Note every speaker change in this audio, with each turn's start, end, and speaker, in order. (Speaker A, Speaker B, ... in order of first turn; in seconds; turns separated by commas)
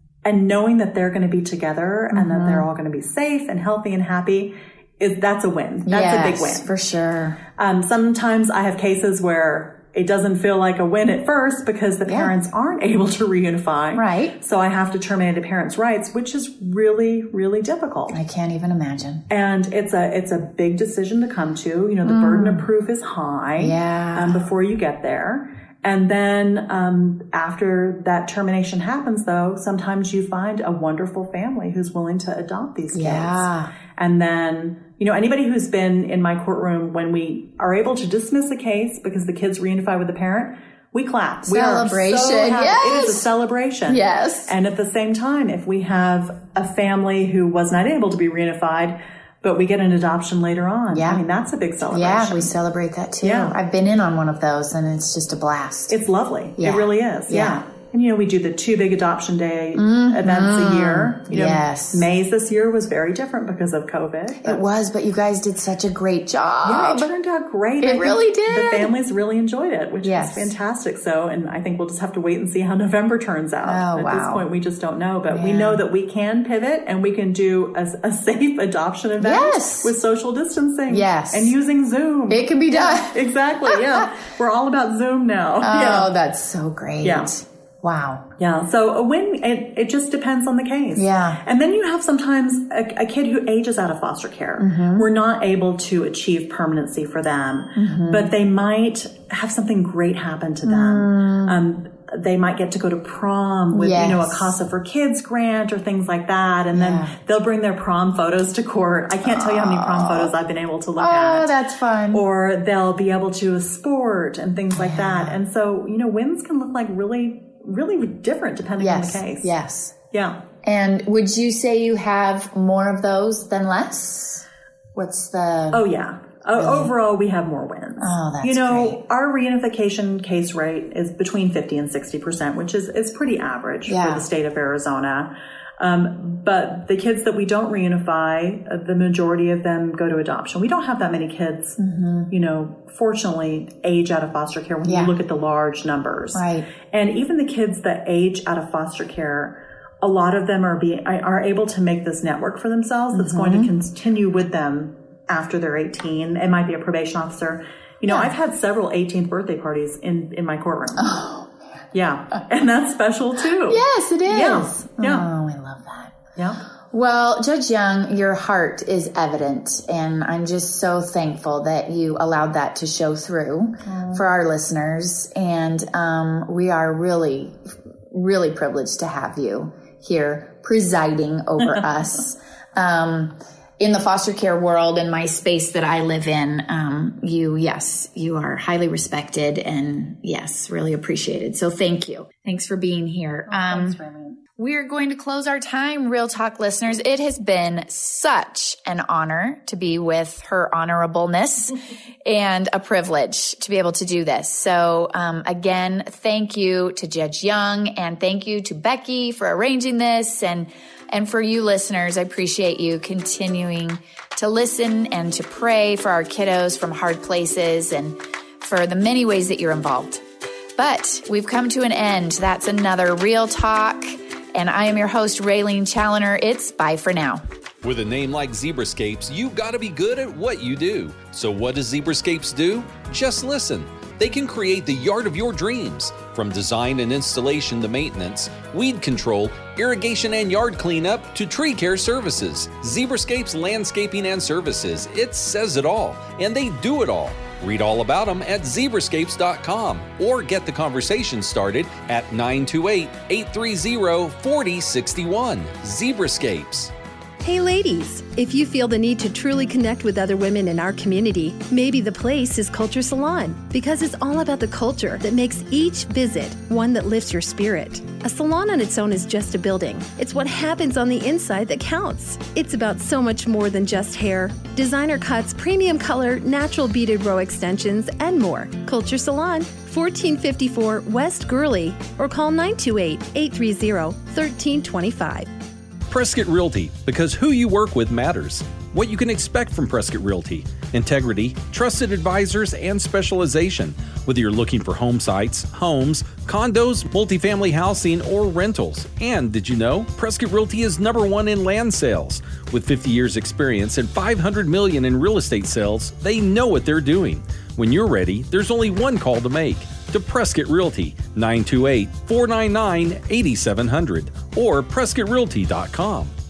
Speaker A: 0.2-6.7, Speaker B: 2.1-2.7, Speaker B: 5.8-7.4, Speaker A: 7.6-18.2, Speaker B: 12.1-12.3, Speaker B: 13.9-14.3, Speaker B: 18.1-19.2, Speaker A: 19.3-52.5, Speaker B: 22.0-22.7, Speaker B: 23.6-24.4, Speaker B: 32.9-33.7, Speaker B: 41.5-43.2, Speaker B: 43.9-44.5, Speaker B: 50.9-51.2, Speaker B: 51.9-56.0, Speaker A: 53.2-53.5, Speaker A: 55.9-64.6, Speaker B: 56.6-57.6, Speaker B: 59.8-62.0, Speaker B: 64.4-67.1, Speaker A: 66.6-86.1, Speaker B: 67.8-68.9, Speaker B: 70.0-70.5, Speaker B: 73.6-74.4, Speaker B: 75.3-75.8, Speaker B: 79.2-79.9, Speaker B: 80.9-81.5, Speaker B: 82.3-83.1, Speaker B: 85.6-88.2, Speaker A: 87.0-87.3, Speaker A: 88.4-111.5, Speaker B: 90.9-91.4, Speaker B: 94.6-95.0, Speaker B: 97.7-98.3, Speaker B: 100.6-101.6, Speaker B: 103.7-104.5, Speaker B: 106.7-107.1, Speaker B: 109.2-110.3, Speaker B: 111.0-112.2, Speaker A: 112.1-119.5, Speaker B: 114.7-115.4, Speaker B: 118.8-119.9, Speaker A: 120.1-120.4, Speaker B: 120.6-125.8, Speaker A: 125.7-141.8, Speaker B: 126.5-126.9, Speaker B: 128.0-129.0, Speaker B: 133.9-134.3, Speaker B: 141.8-142.3, Speaker A: 142.3-161.1, Speaker B: 144.8-145.1, Speaker B: 146.3-146.7, Speaker B: 153.1-153.7, Speaker B: 161.0-161.5, Speaker A: 161.9-165.3, Speaker B: 163.7-166.2, Speaker A: 166.3-166.6, Speaker B: 166.9-177.6, Speaker A: 173.8-174.2, Speaker B: 178.1-194.0, Speaker A: 193.5-194.4, Speaker B: 194.6-220.2, Speaker B: 220.8-227.4, Speaker C: 227.8-256.9, Speaker D: 257.4-285.5, Speaker C: 286.1-316.3